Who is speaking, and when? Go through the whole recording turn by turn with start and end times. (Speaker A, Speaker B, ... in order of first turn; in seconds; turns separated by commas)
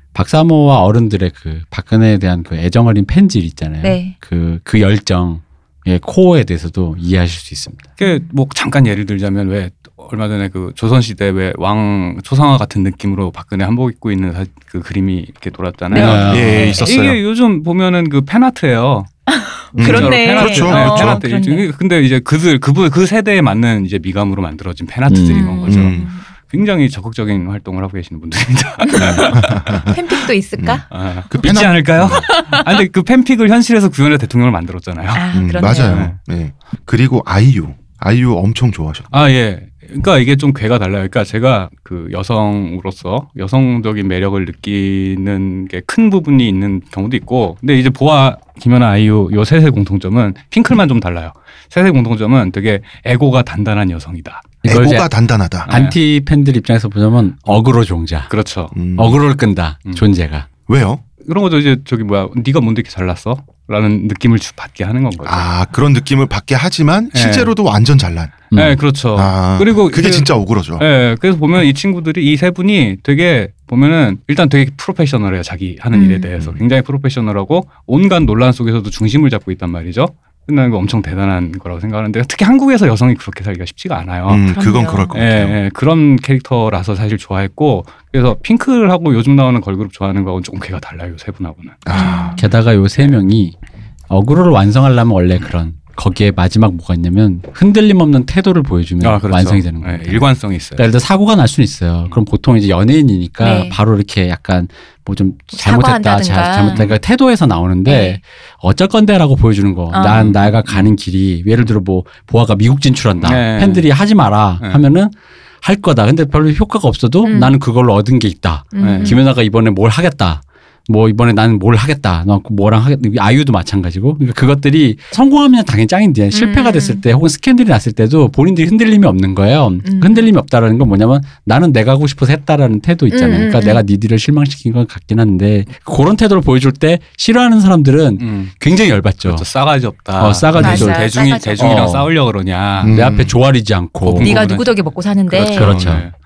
Speaker A: 0.1-7.8, Speaker B: 3.8-4.2, Speaker C: 8.0-19.1, Speaker B: 8.0-8.3, Speaker B: 15.9-17.0, Speaker A: 15.9-16.7, Speaker D: 16.3-17.2, Speaker B: 19.3-21.7, Speaker D: 19.8-21.2, Speaker C: 19.8-29.9, Speaker A: 25.1-25.5, Speaker B: 25.3-26.2, Speaker D: 25.7-26.1, Speaker B: 28.9-30.9, Speaker D: 29.0-30.0, Speaker D: 30.6-32.3, Speaker C: 30.9-36.2, Speaker B: 32.2-32.8, Speaker B: 35.1-36.1, Speaker D: 35.3-39.1, Speaker C: 39.1-54.6, Speaker A: 54.6-55.1, Speaker D: 54.6-55.7, Speaker A: 55.6-58.3, Speaker C: 55.7-56.0, Speaker C: 58.3-58.8, Speaker D: 58.7-59.2, Speaker A: 59.0-60.5, Speaker D: 60.7-61.0, Speaker C: 61.2-65.5, Speaker D: 65.2-68.5, Speaker C: 67.1-67.5, Speaker A: 68.5-68.8, Speaker C: 68.5-84.5, Speaker D: 69.1-70.8, Speaker B: 75.9-76.3, Speaker D: 84.3-85.6, Speaker B: 84.5-85.1, Speaker C: 85.1-91.9, Speaker D: 91.9-92.4, Speaker B: 91.9-92.4, Speaker A: 92.3-93.5, Speaker A: 94.1-139.5, Speaker C: 99.0-100.8, Speaker B: 103.4-103.8, Speaker B: 105.5-106.9, Speaker C: 106.7-107.0, Speaker B: 107.9-108.2, Speaker B: 109.9-110.3, Speaker C: 110.0-111.0, Speaker C: 113.2-113.9, Speaker B: 117.2-117.6, Speaker B: 118.7-119.2, Speaker C: 118.8-119.2, Speaker B: 126.3-127.0, Speaker B: 129.8-130.3, Speaker B: 133.1-133.8, Speaker C: 138.2-138.6, Speaker C: 139.2-143.0, Speaker A: 140.2-142.1, Speaker B: 140.6-142.0, Speaker D: 142.8-143.4, Speaker A: 142.8-144.4, Speaker C: 144.0-146.1, Speaker B: 144.2-145.7, Speaker A: 145.6-146.1, Speaker D: 145.7-146.0